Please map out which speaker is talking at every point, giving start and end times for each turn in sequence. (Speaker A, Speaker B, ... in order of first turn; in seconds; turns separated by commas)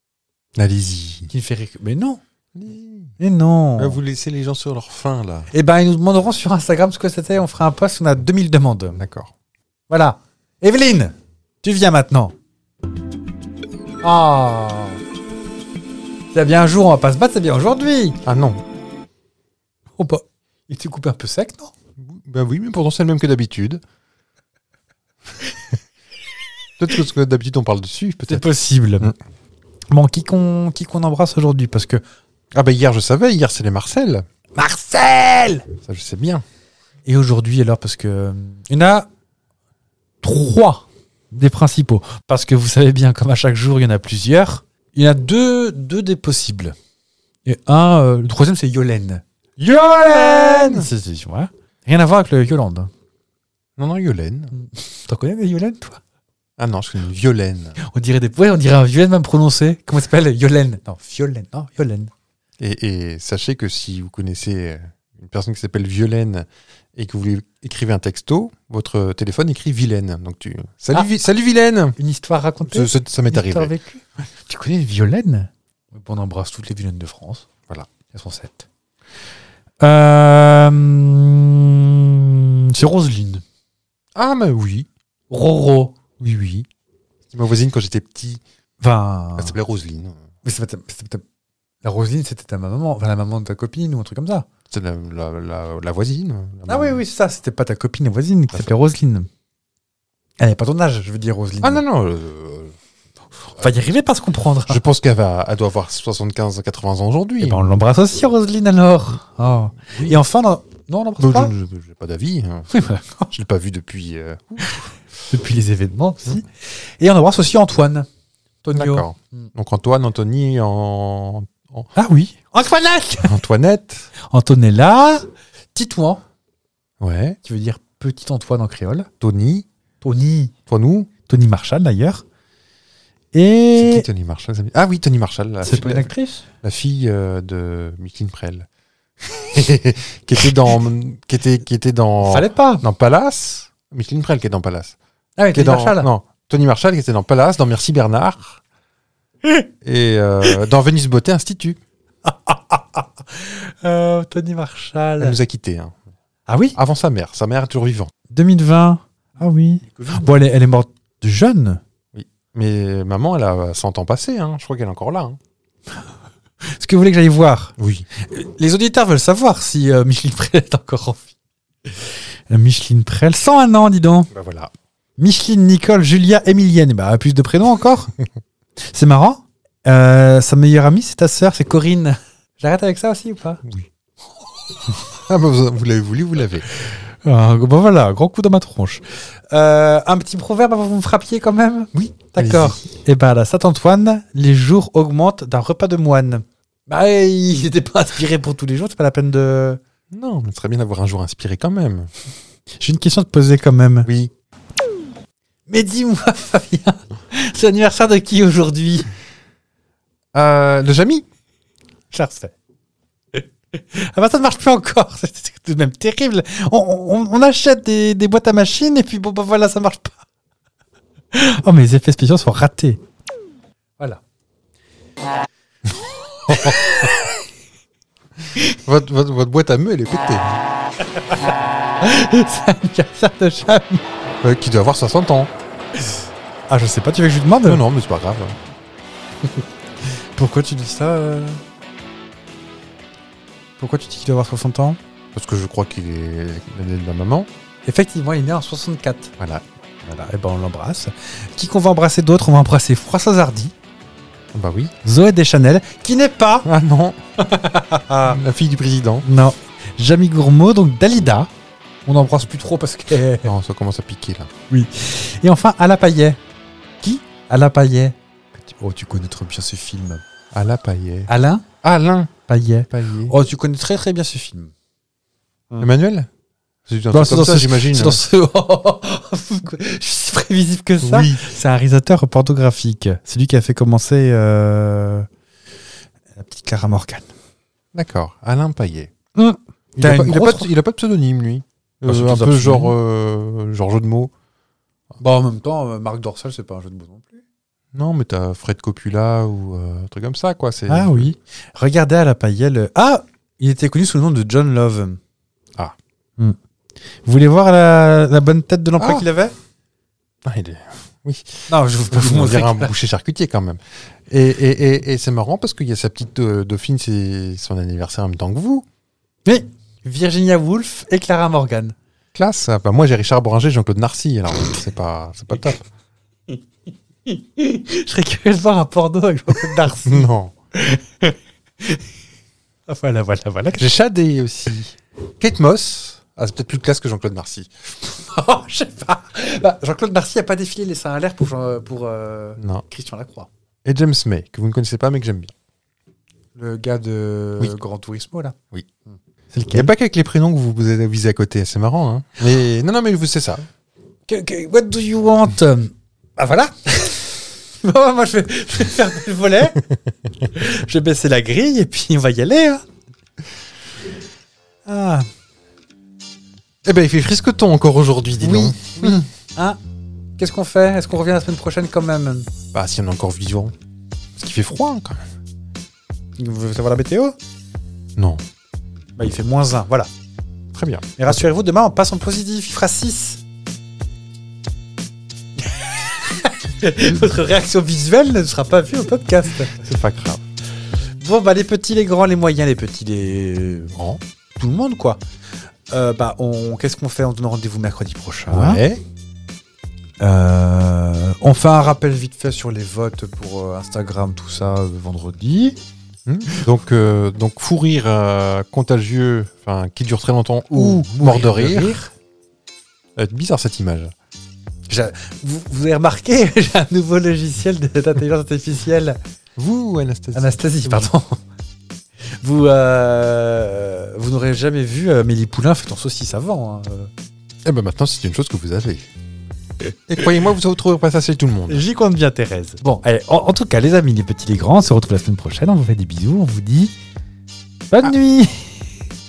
Speaker A: 0.6-1.3, Speaker B: 1.3-2.2, Speaker A: 2.5-3.1, Speaker B: 3.2-4.0, Speaker A: 3.8-5.5, Speaker B: 5.5-9.0, Speaker A: 9.0-9.3, Speaker B: 9.9-12.3, Speaker B: 14.0-15.0, Speaker B: 16.3-18.2, Speaker A: 18.2-18.6, Speaker B: 20.0-21.7, Speaker A: 22.0-23.8, Speaker A: 26.8-28.4, Speaker B: 28.3-29.1, Speaker B: 29.9-32.0, Speaker A: 32.5-34.2, Speaker B: 34.5-35.7, Speaker A: 35.8-36.4, Speaker B: 37.0-39.1, Speaker B: 40.2-46.7, Speaker B: 47.5-52.9, Speaker A: 49.7-50.9, Speaker A: 53.8-54.5, Speaker B: 54.5-56.0, Speaker A: 56.6-57.8, Speaker B: 57.8-62.1, Speaker A: 62.6-72.0, Speaker B: 72.0-77.5, Speaker A: 72.6-73.7, Speaker B: 78.1-78.7, Speaker B: 79.8-83.4, Speaker A: 84.1-84.9, Speaker B: 85.3-85.9, Speaker A: 86.2-86.7, Speaker A: 87.3-88.4, Speaker B: 88.8-89.5, Speaker A: 89.4-90.2, Speaker B: 90.4-91.2, Speaker B: 91.8-94.5, Speaker A: 94.7-97.0, Speaker B: 96.7-99.3, Speaker B: 100.4-101.8, Speaker A: 101.6-102.7, Speaker B: 103.5-104.8, Speaker A: 104.7-107.7, Speaker B: 107.4-111.5, Speaker A: 109.9-110.2, Speaker A: 111.2-112.7, Speaker B: 112.7-113.3, Speaker A: 113.3-114.9, Speaker B: 115.3-118.1, Speaker B: 118.6-119.5, Speaker A: 118.8-121.9, Speaker B: 121.9-123.4, Speaker A: 123.2-124.1, Speaker B: 124.2-126.2, Speaker A: 127.0-127.4, Speaker B: 127.4-129.1, Speaker A: 129.2-129.7, Speaker B: 130.0-130.5, Speaker A: 130.7-131.1, Speaker B: 131.3-132.2, Speaker B: 133.3-134.1, Speaker A: 133.8-136.1, Speaker B: 135.6-136.4, Speaker A: 136.6-138.7, Speaker A: 139.2-144.9, Speaker B: 142.2-142.8, Speaker B: 145.4-146.1, Speaker A: 145.5-148.6, Speaker A: 149.8-151.8, Speaker B: 152.2-155.4, Speaker A: 155.2-155.9, Speaker B: 156.5-156.8, Speaker A: 156.7-158.1, Speaker B: 158.3-161.8, Speaker A: 159.9-160.3, Speaker A: 162.1-165.4, Speaker B: 166.7-171.3, Speaker A: 167.8-168.1, Speaker B: 171.9-174.3, Speaker A: 174.3-174.7, Speaker B: 175.2-178.1, Speaker B: 178.8-183.6, Speaker A: 185.1-186.7, Speaker B: 187.2-199.8, Speaker A: 192.4-192.8, Speaker A: 200.1-202.1, Speaker B: 202.8-204.1, Speaker A: 204.0-204.3, Speaker B: 205.7-209.1, Speaker A: 210.3-211.2, Speaker B: 212.1-212.5, Speaker B: 213.3-220.2, Speaker B: 221.3-223.0, Speaker A: 226.5-226.8, Speaker B: 226.5-227.1, Speaker A: 228.8-230.6, Speaker B: 232.0-234.1, Speaker A: 234.4-235.5, Speaker B: 236.7-237.8, Speaker A: 237.6-238.6, Speaker B: 240.1-241.6, Speaker B: 243.8-245.0, Speaker A: 245.3-247.5, Speaker B: 247.8-249.3, Speaker A: 249.4-249.6, Speaker B: 250.0-253.7, Speaker A: 254.5-254.9, Speaker B: 255.0-256.7, Speaker A: 256.6-257.2, Speaker B: 257.4-258.4, Speaker A: 258.2-259.2, Speaker B: 259.2-261.5, Speaker B: 262.1-263.5, Speaker A: 263.4-264.5, Speaker B: 264.7-266.4, Speaker B: 267.0-270.2, Speaker A: 270.5-271.3, Speaker B: 271.3-271.7, Speaker A: 271.8-272.3, Speaker B: 272.5-274.7, Speaker A: 272.9-273.3, Speaker A: 275.8-276.3, Speaker A: 276.9-278.2, Speaker B: 277.1-285.3, Speaker A: 281.0-281.5, Speaker B: 286.3-287.3, Speaker A: 287.9-289.1, Speaker B: 289.3-290.7, Speaker A: 289.9-294.3, Speaker B: 292.0-292.9, Speaker B: 295.2-297.4, Speaker A: 297.9-301.3, Speaker B: 300.9-305.2, Speaker B: 307.2-309.5, Speaker A: 309.0-309.2, Speaker A: 310.4-318.9, Speaker B: 311.7-312.9, Speaker B: 319.4-321.9, Speaker A: 322.3-325.9, Speaker B: 327.2-332.0, Speaker A: 330.1-330.5, Speaker B: 332.9-333.9, Speaker A: 333.8-337.7, Speaker B: 338.1-343.5, Speaker A: 342.6-342.8, Speaker A: 343.8-345.5, Speaker B: 346.6-348.6, Speaker B: 349.1-349.9, Speaker A: 349.7-353.6, Speaker B: 354.3-359.9, Speaker B: 360.5-362.8, Speaker B: 364.9-365.3, Speaker A: 366.8-369.3, Speaker B: 368.4-369.8, Speaker B: 370.4-372.5, Speaker A: 372.7-373.7, Speaker A: 374.4-375.3, Speaker B: 376.4-377.3, Speaker A: 378.1-378.4, Speaker B: 379.2-380.1, Speaker A: 380.7-381.3, Speaker B: 381.2-383.4, Speaker B: 385.6-389.8, Speaker A: 389.7-390.4, Speaker B: 391.2-393.9, Speaker A: 393.9-394.2, Speaker B: 394.6-395.2, Speaker B: 395.9-398.8, Speaker A: 398.5-399.0, Speaker B: 400.2-405.8, Speaker A: 406.2-411.9, Speaker B: 410.7-412.1, Speaker A: 413.1-414.1, Speaker B: 414.9-419.2, Speaker A: 419.6-420.9, Speaker B: 420.3-421.4, Speaker B: 422.4-427.1, Speaker A: 427.6-429.1, Speaker A: 430.1-431.8, Speaker B: 431.7-436.9, Speaker B: 437.9-438.9